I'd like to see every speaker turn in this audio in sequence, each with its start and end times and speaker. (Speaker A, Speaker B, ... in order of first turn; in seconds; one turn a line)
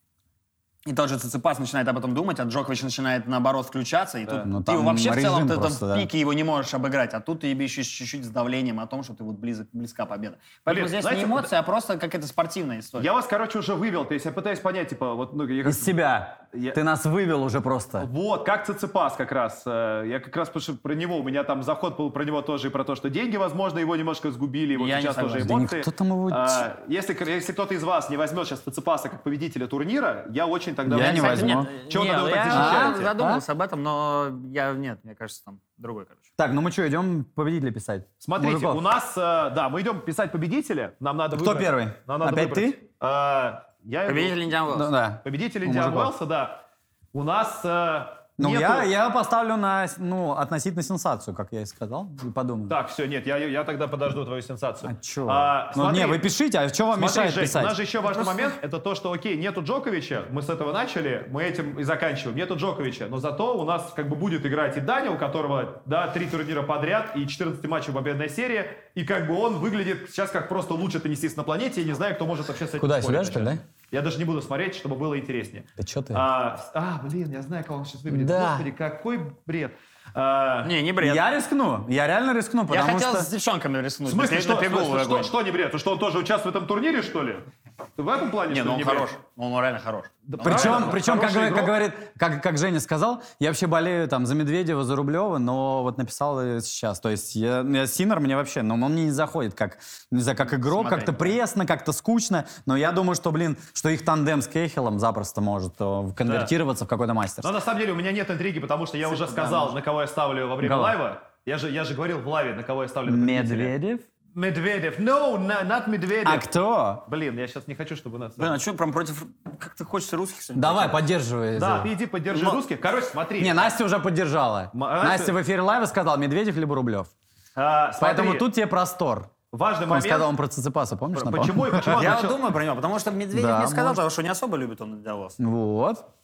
Speaker A: 0.9-13.1
Speaker B: 4.5-6.1
Speaker C: 10.7-11.5
Speaker C: 13.0-16.0
Speaker B: 15.7-18.1
Speaker C: 16.5-16.8
Speaker C: 18.0-33.1
Speaker A: 24.8-25.5
Speaker B: 25.4-26.7
Speaker B: 30.9-31.7
Speaker A: 30.9-36.3
Speaker B: 32.5-33.4
Speaker B: 36.4-38.8
Speaker C: 38.2-44.4
Speaker B: 41.4-42.8
Speaker A: 44.1-44.9
Speaker B: 44.7-46.1
Speaker C: 45.2-48.9
Speaker B: 48.4-52.8
Speaker C: 52.7-56.3
Speaker B: 54.8-57.8
Speaker C: 57.0-80.8
Speaker A: 58.2-58.5
Speaker B: 72.8-73.6
Speaker B: 75.8-76.2
Speaker B: 78.1-78.7
Speaker A: 80.6-81.3
Speaker B: 81.0-83.3
Speaker A: 82.7-85.3
Speaker C: 84.1-87.5
Speaker C: 88.0-89.1
Speaker A: 88.5-90.9
Speaker C: 90.3-91.8
Speaker B: 90.4-107.5
Speaker A: 100.5-101.4
Speaker C: 106.2-106.5
Speaker C: 107.4-113.7
Speaker A: 109.1-109.8
Speaker B: 110.6-111.0
Speaker B: 113.1-114.1
Speaker C: 114.3-116.5
Speaker B: 116.2-117.0
Speaker C: 117.0-118.6
Speaker A: 118.4-121.0
Speaker B: 120.6-121.9
Speaker C: 121.6-123.7
Speaker A: 122.3-122.6
Speaker B: 123.4-127.1
Speaker C: 124.7-125.3
Speaker C: 127.6-128.5
Speaker B: 128.0-129.3
Speaker C: 129.5-130.3
Speaker B: 129.9-132.0
Speaker C: 131.1-132.4
Speaker A: 131.9-135.4
Speaker B: 133.3-134.0
Speaker B: 135.4-136.1